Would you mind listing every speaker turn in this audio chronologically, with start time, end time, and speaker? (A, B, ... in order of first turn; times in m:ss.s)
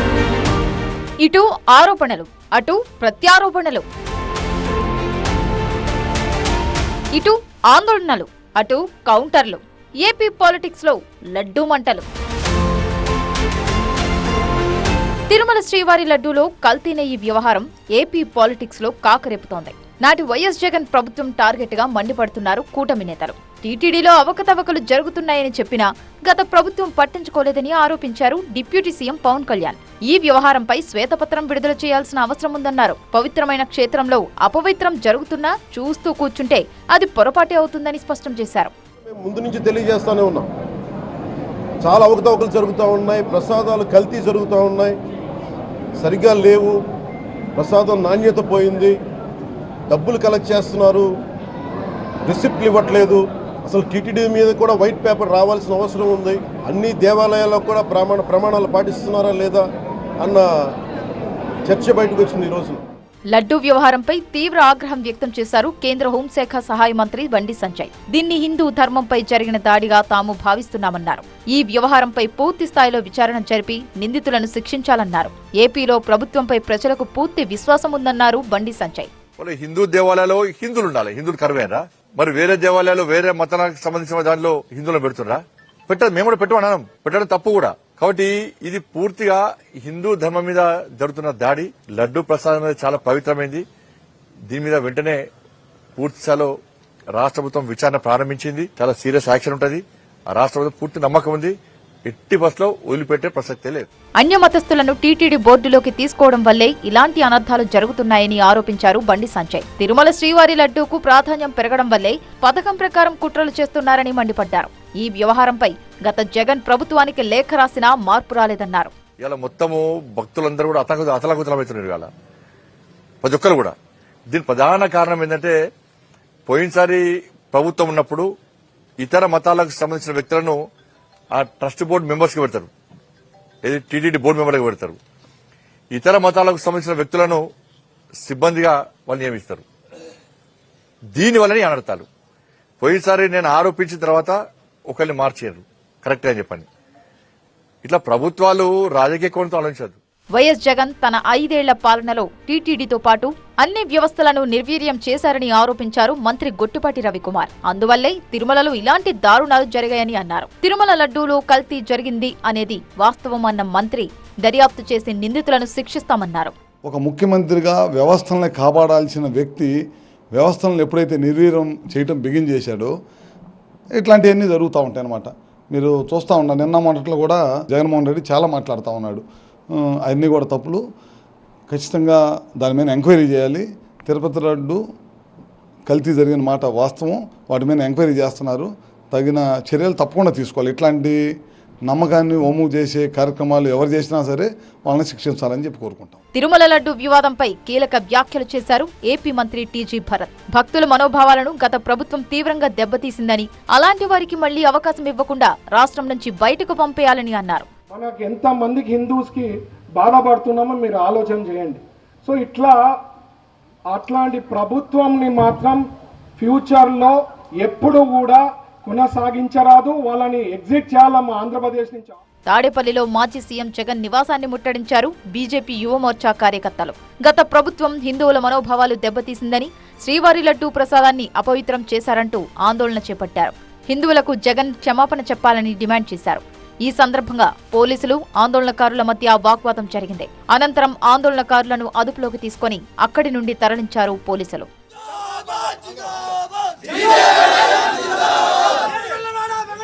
0:01.2-0:03.9 A
0:07.1-0:12.1 A
0:15.3-0:38.7 A
0:39.1-0:40.5 B
0:41.8-0:45.0 B
0:46.0-0:46.8 B
0:47.6-0:49.0 B
0:49.9-0:51.1 B
0:52.3-0:59.6 B
1:00.2-1:00.5 B
1:01.7-1:02.8 B
1:03.3-1:19.1 A
1:19.4-1:33.6 C
1:34.5-1:35.2 C
1:36.0-1:36.5 C
1:37.1-1:41.5 C
1:42.1-1:43.9 C
1:44.2-1:58.9 A
1:59.2-2:02.1 C
2:03.2-2:03.8 C
2:04.3-2:05.5 C
2:06.5-2:08.3 C
2:09.0-2:10.6 C
2:11.3-2:12.7 C
2:13.6-2:15.0 C
2:15.9-2:17.4 C
2:18.2-2:19.6 C
2:21.2-2:22.1 C
2:22.8-2:24.4 C
2:24.9-2:26.7 C
2:27.8-2:30.0 C
2:30.4-2:46.5 A
2:46.8-2:49.7 D
2:50.4-2:52.9 D
2:54.0-2:59.2 D
2:59.8-3:00.8 D
3:01.7-3:04.8 D
3:05.9-3:11.2 D
3:11.9-3:16.2 D
3:16.4-3:27.7 A
3:27.9-3:32.8 E
3:33.9-3:35.8 E
3:36.4-3:42.2 E
3:42.5-4:04.7 A